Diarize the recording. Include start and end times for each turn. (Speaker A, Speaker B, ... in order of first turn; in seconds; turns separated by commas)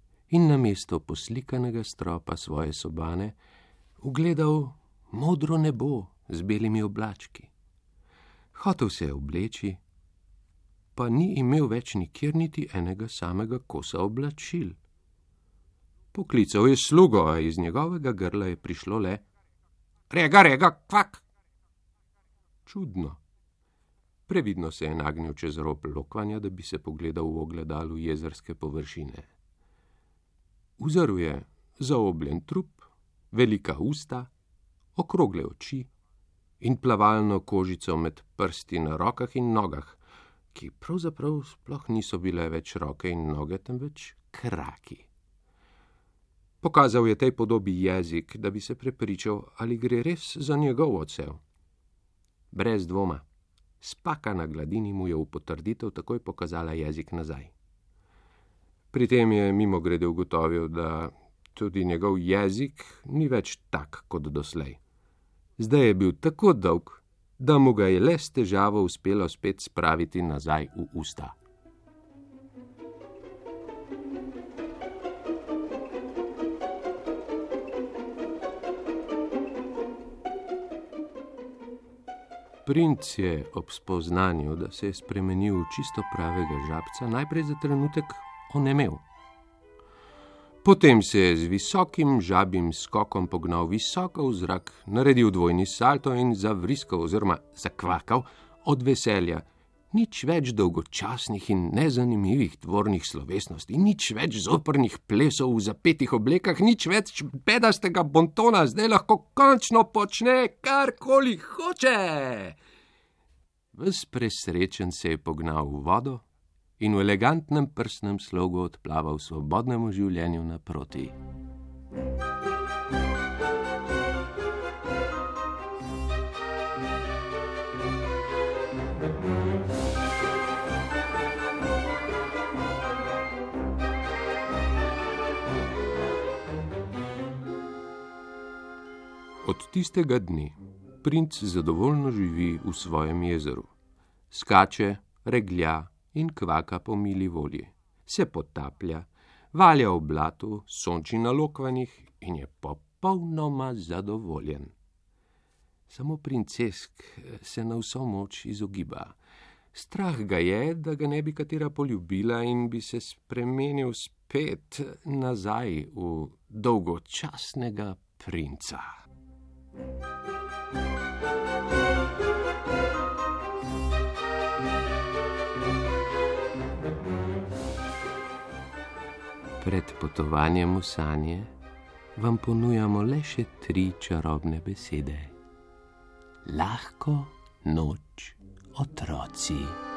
Speaker A: 0.3-3.4, Speaker A: 4.0-7.5, Speaker A: 8.5-9.8, Speaker A: 10.9-14.8, Speaker A: 16.1-19.3, Speaker A: 20.1-21.2, Speaker A: 22.7-23.2, Speaker A: 24.3-29.3, Speaker A: 30.8-34.3, Speaker A: 35.0-35.9, Speaker A: 36.6-40.0, Speaker A: 40.5-45.1, Speaker A: 46.6-51.4, Speaker A: 52.5-53.2, Speaker A: 53.8-57.5, Speaker A: 58.9-64.8, Speaker A: 65.6-71.4, Speaker A: 82.7-89.0, Speaker A: 90.6-112.6, Speaker A: 113.7-116.2, Speaker A: 116.8-121.2, Speaker A: 139.4-143.7, Speaker A: 144.3-154.7, Speaker A: 155.9-159.2, Speaker A: 159.7-169.0, Speaker A: 179.6-181.6, Speaker A: 182.2-185.4, Speaker A: 186.4-189.8